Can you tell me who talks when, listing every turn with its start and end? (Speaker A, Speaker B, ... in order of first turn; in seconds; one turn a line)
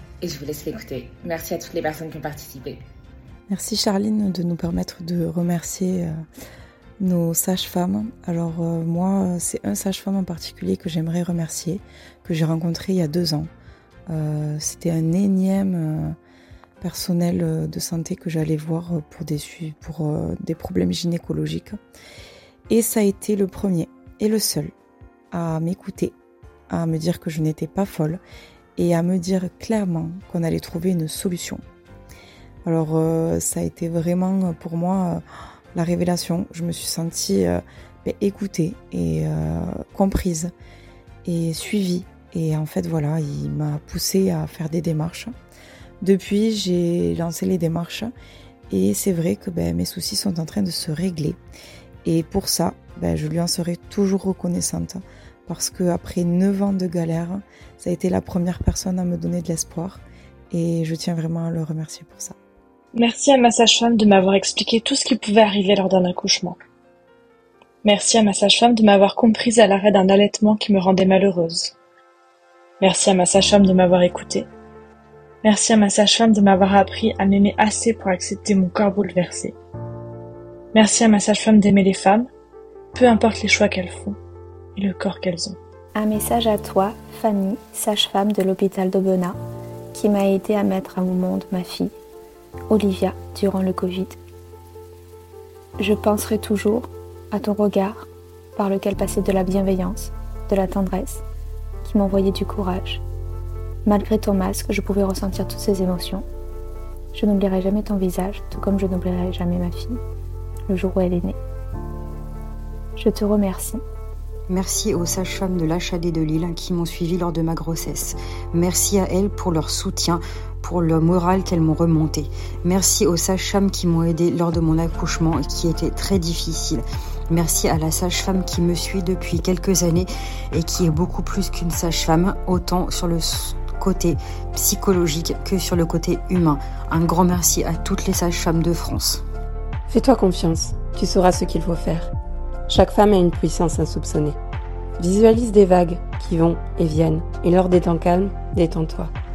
Speaker A: 0.2-2.8
Speaker B: 3.5-6.1
Speaker B: 7.0-13.5
Speaker B: 14.1-16.1
Speaker B: 16.8-21.8
Speaker B: 22.7-24.7
Speaker B: 25.3-26.1
Speaker B: 26.7-28.2
Speaker B: 28.8-31.6
Speaker B: 32.6-35.2
Speaker B: 35.7-40.5
Speaker B: 41.2-45.3
Speaker B: 46.0-48.1
Speaker B: 48.7-51.4
Speaker B: 52.0-62.3
Speaker C: 62.9-66.5
Speaker C: 67.8-71.7
Speaker C: 72.8-74.5
Speaker C: 75.4-79.5
Speaker C: 80.7-82.3
Speaker C: 82.9-84.2
Speaker C: 84.8-85.5
Speaker D: 85.9-89.4
Speaker D: 89.9-91.9
Speaker D: 92.7-94.2
Speaker D: 95.8-101.2
Speaker D: 101.8-103.0
Speaker D: 103.8-106.2
Speaker D: 107.1-110.0
Speaker D: 110.7-111.3
Speaker D: 113.0-113.8
Speaker E: 114.5-139.2
Speaker F: 139.9-142.1
Speaker F: 142.7-144.4
Speaker F: 145.0-149.1